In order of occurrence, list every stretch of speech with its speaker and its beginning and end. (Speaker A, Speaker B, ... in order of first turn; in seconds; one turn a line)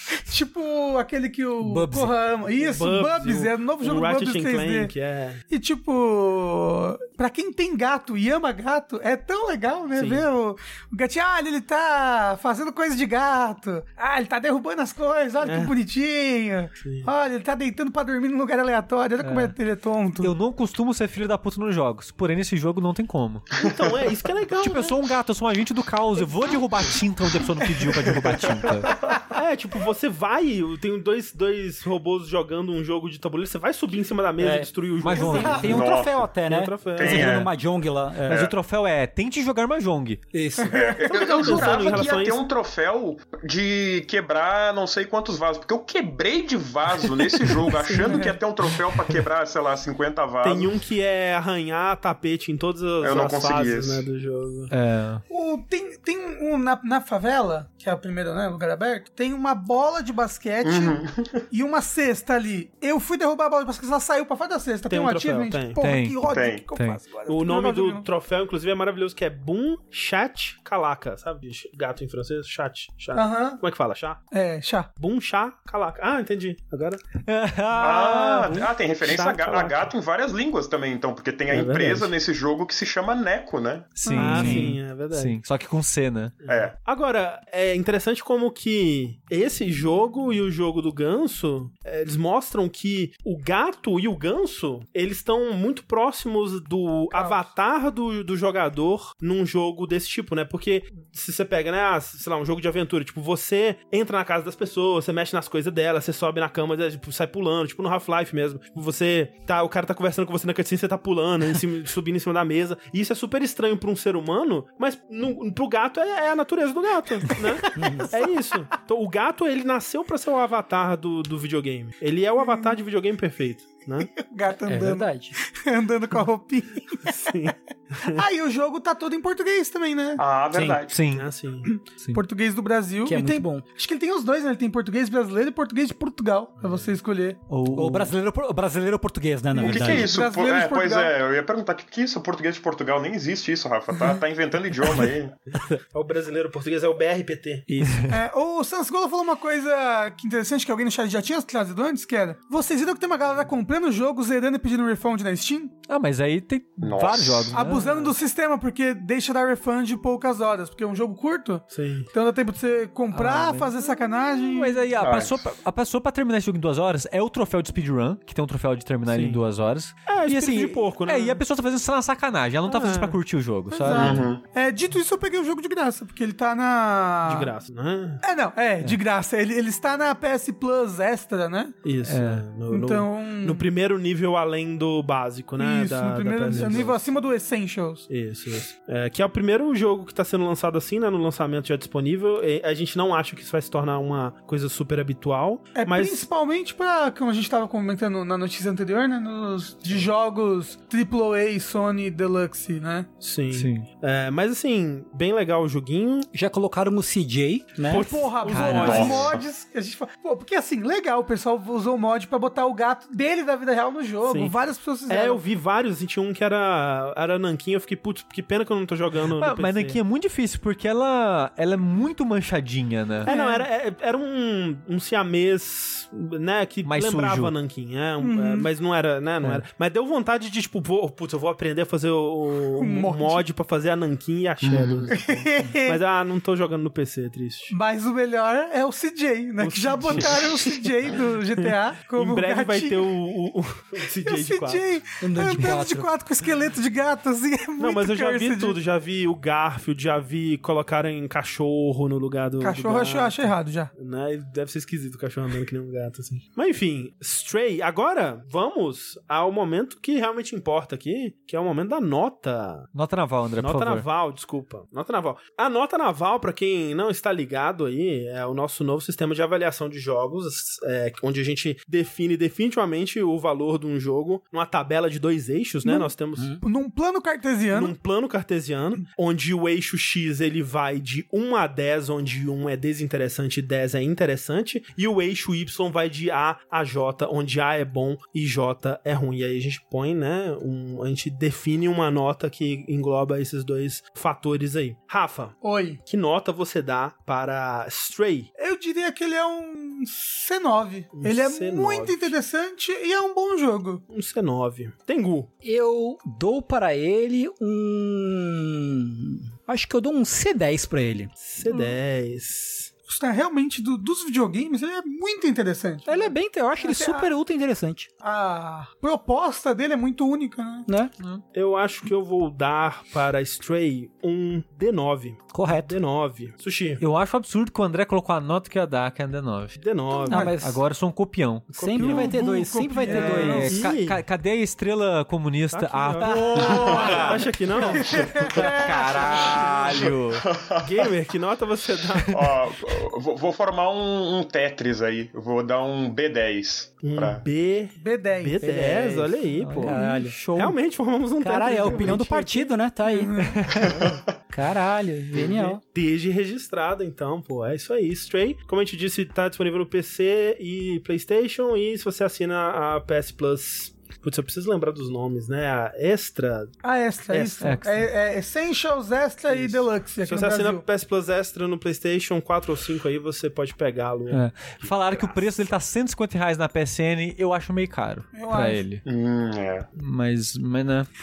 Speaker A: 0.2-4.9
Speaker B: 1.6-2.1
Speaker C: 2.5-5.4
Speaker A: 5.5-20.3
Speaker C: 9.9-10.3
Speaker C: 15.4-15.7
Speaker C: 16.8-17.1
Speaker D: 19.2-19.5
Speaker D: 20.2-23.5
Speaker C: 23.6-24.9
Speaker D: 24.5-28.9
Speaker E: 27.9-28.7
Speaker C: 29.3-35.9
Speaker B: 34.4-38.4
Speaker D: 35.0-35.7
Speaker A: 35.2-35.7
Speaker E: 35.6-36.3
Speaker C: 36.4-37.5
Speaker E: 37.0-37.5
Speaker D: 38.2-40.2
Speaker E: 38.3-38.5
Speaker B: 40.3-41.2
Speaker E: 40.7-50.7
Speaker C: 41.0-42.4
Speaker C: 48.0-48.3
Speaker A: 48.0-48.4
Speaker C: 50.4-54.7
Speaker E: 53.0-54.0
Speaker D: 54.7-55.2
Speaker A: 55.3-61.0
Speaker E: 60.6-61.4
Speaker A: 61.5-68.0
Speaker C: 64.9-65.8
Speaker D: 65.8-66.2
Speaker E: 66.2-66.7
Speaker D: 66.7-67.0
Speaker C: 67.3-74.2
Speaker A: 73.1-73.6
Speaker A: 74.3-74.9
Speaker C: 75.0-77.0
Speaker D: 77.2-78.7
Speaker E: 77.8-83.9
Speaker C: 79.0-79.9
Speaker C: 81.5-82.1
Speaker D: 84.0-86.3
Speaker A: 84.0-84.5
Speaker C: 84.1-85.4
Speaker B: 84.4-84.7
Speaker C: 86.4-124.1
Speaker E: 86.4-86.7
Speaker A: 97.1-97.5
Speaker A: 117.4-118.3
Speaker B: 117.7-118.1
Speaker A: 124.1-130.2
Speaker B: 124.7-125.3
Speaker C: 127.0-128.2
Speaker E: 130.2-131.0
Speaker B: 130.5-130.8
Speaker D: 130.9-131.3
Speaker C: 131.1-131.7
Speaker A: 131.7-137.4
Speaker B: 133.0-133.6
Speaker C: 136.6-136.9
Speaker D: 137.5-138.1
Speaker B: 137.7-140.1
Speaker A: 139.5-141.1
Speaker E: 139.6-145.3
Speaker C: 145.9-147.8
Speaker D: 147.8-148.2
Speaker A: 148.1-155.8
Speaker D: 155.9-157.9
Speaker E: 156.8-157.6
Speaker A: 157.5-164.8
Speaker C: 157.7-158.1
Speaker C: 161.7-162.1
Speaker D: 163.1-163.7
Speaker D: 164.4-174.3
Speaker E: 165.0-165.4
Speaker C: 169.1-169.4
Speaker C: 170.1-171.4
Speaker C: 172.7-173.2
Speaker A: 173.7-177.5
Speaker E: 173.9-174.4
Speaker C: 177.2-178.2
Speaker A: 178.2-181.8
Speaker C: 181.8-187.0
Speaker D: 182.0-182.5
Speaker A: 182.7-183.6
Speaker A: 185.6-188.1
Speaker C: 188.1-196.2
Speaker A: 195.7-203.1
Speaker C: 203.2-206.3
Speaker D: 203.5-203.8
Speaker B: 206.3-208.1
Speaker C: 207.8-209.3
Speaker A: 207.9-215.4
Speaker D: 208.4-209.3
Speaker E: 208.8-209.4
Speaker C: 214.2-214.6
Speaker C: 215.1-220.0
Speaker D: 219.3-223.3
Speaker C: 223.2-237.7
Speaker A: 223.2-223.7
Speaker D: 226.8-227.5
Speaker A: 228.2-228.7
Speaker A: 232.8-233.4
Speaker A: 235.1-236.0
Speaker A: 237.7-243.1
Speaker C: 239.6-244.9
Speaker A: 244.2-248.8
Speaker B: 245.2-246.1
Speaker C: 247.8-262.9
Speaker A: 252.6-253.9
Speaker D: 262.9-264.1
Speaker C: 263.6-276.6
Speaker B: 276.4-276.6
Speaker A: 276.6-277.9
Speaker C: 277.7-298.5
Speaker A: 295.6-296.0
Speaker A: 298.6-304.0
Speaker C: 301.1-302.3
Speaker C: 304.1-305.5
Speaker B: 305.6-311.3
Speaker C: 311.4-312.9
Speaker A: 311.6-311.9
Speaker A: 313.1-317.3
Speaker B: 316.1-318.1
Speaker A: 318.2-320.9
Speaker B: 320.9-321.1
Speaker C: 321.5-327.0
Speaker B: 325.5-325.9
Speaker D: 327.0-329.8
Speaker C: 329.8-330.5
Speaker A: 330.1-330.5
Speaker B: 330.3-330.8
Speaker D: 330.4-331.8
Speaker C: 331.7-332.4
Speaker B: 331.8-333.8
Speaker A: 331.9-333.8
Speaker C: 333.1-334.2
Speaker D: 333.1-337.5
Speaker C: 335.7-340.1
Speaker A: 336.2-339.7
Speaker D: 338.4-340.4
Speaker E: 340.4-341.1
Speaker C: 340.8-342.4
Speaker E: 342.3-347.4
Speaker C: 347.0-349.9
Speaker A: 348.0-348.6
Speaker B: 348.6-350.4
Speaker D: 349.6-350.7
Speaker A: 349.9-350.2
Speaker C: 350.5-352.7
Speaker B: 351.4-353.5
Speaker A: 351.9-352.2
Speaker A: 353.0-353.6
Speaker D: 353.4-354.1
Speaker E: 353.8-354.2
Speaker B: 354.5-355.8
Speaker C: 355.3-366.8
Speaker A: 366.8-370.8
Speaker C: 367.3-367.7
Speaker D: 367.6-368.1
Speaker C: 369.5-374.4
Speaker D: 374.3-379.0
Speaker A: 378.3-378.8
Speaker E: 379.0-379.9
Speaker D: 379.9-381.1